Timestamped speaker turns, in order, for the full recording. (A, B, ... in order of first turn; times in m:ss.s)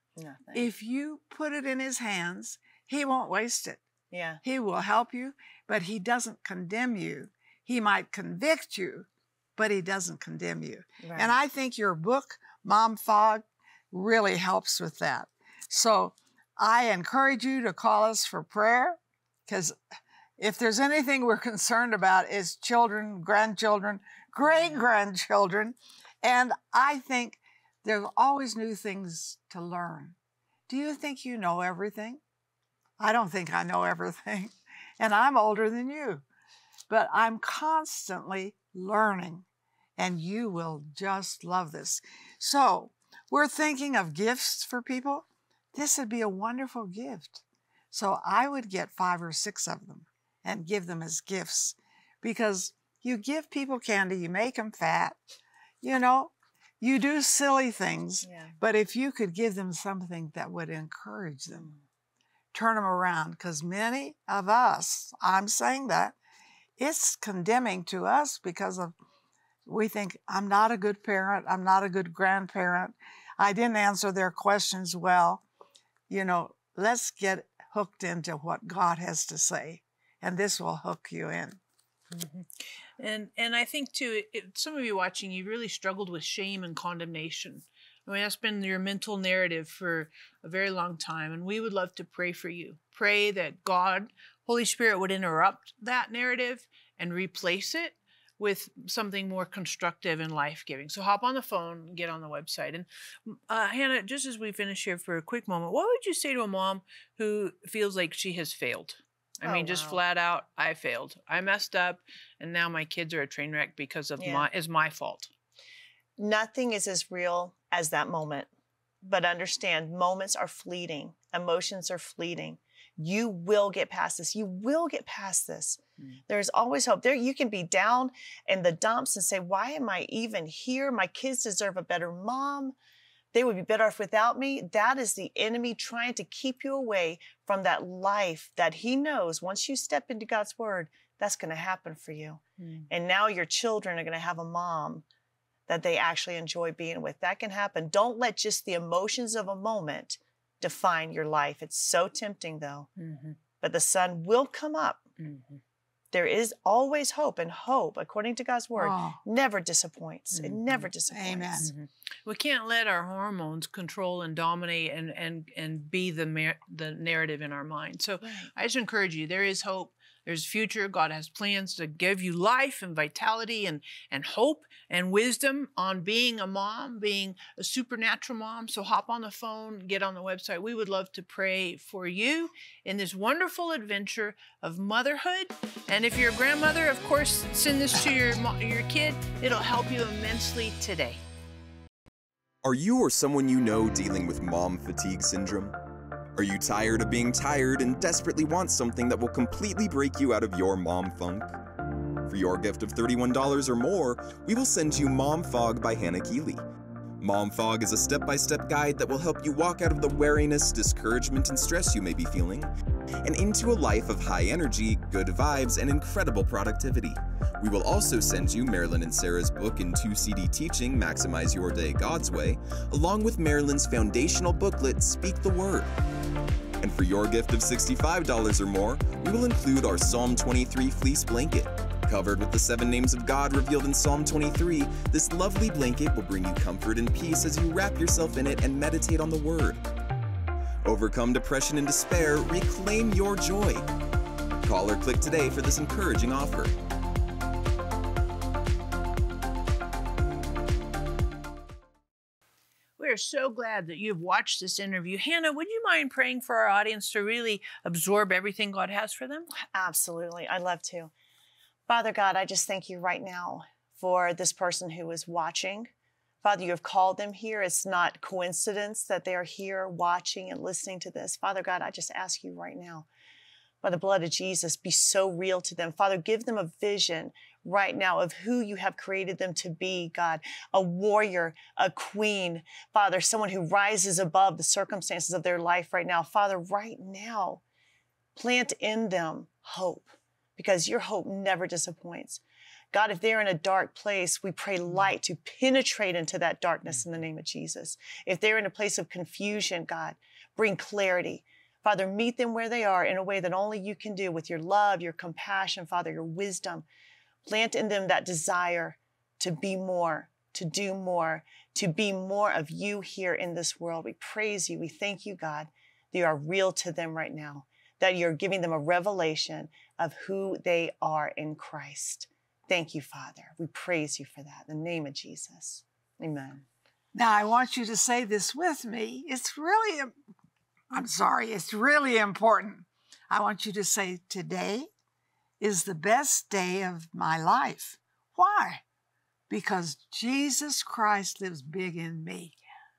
0:00.2-0:00.7 A
0:00.5-0:03.8 B
0:04.1-0:04.4 A
0:04.4-0:19.8 B
0:11.0-0:11.4 A
0:20.4-0:30.2 B
0:30.7-0:32.2 B
0:33.0-0:36.2 B
0:36.9-0:39.4 B
0:40.0-0:55.2 B
0:55.8-1:01.7 B
0:58.2-0:58.5 A
1:01.5-1:01.8 A
1:02.5-1:06.2 B
1:06.8-1:09.0 B
1:09.6-1:15.4 B
1:16.1-1:21.6 B
1:22.1-1:22.5 C
1:23.0-1:55.3 C
1:49.4-1:50.0 A
1:54.2-1:54.5 A
1:56.2-1:58.5 A
1:59.0-2:12.7 A
2:13.3-2:25.0 A
2:25.7-2:32.9 A
2:33.0-2:33.4 C
2:33.6-2:35.0 A
2:35.2-2:35.6 C
2:36.1-2:41.7 A
2:38.8-2:39.2 B
2:40.3-2:40.7 C
2:41.1-2:41.7 B
2:41.6-3:11.2 C
3:12.6-3:15.7 D
3:16.4-3:21.5 D
3:22.3-3:26.6 D
3:27.2-3:32.7 D
3:33.2-3:46.0 D
3:46.8-3:59.8 D
4:00.8-4:03.9 D
4:04.6-4:06.7 D
4:13.0-4:19.5 C
4:19.6-4:21.1 A
4:21.9-4:25.9 A
4:26.4-4:33.1 A
4:33.8-4:47.6 A
4:48.3-4:52.4 A
4:52.9-5:06.8 A
5:07.4-5:26.6 A
5:27.1-5:30.1 B
5:30.9-5:34.9 B
5:35.6-5:38.8 B
5:39.5-5:42.6 B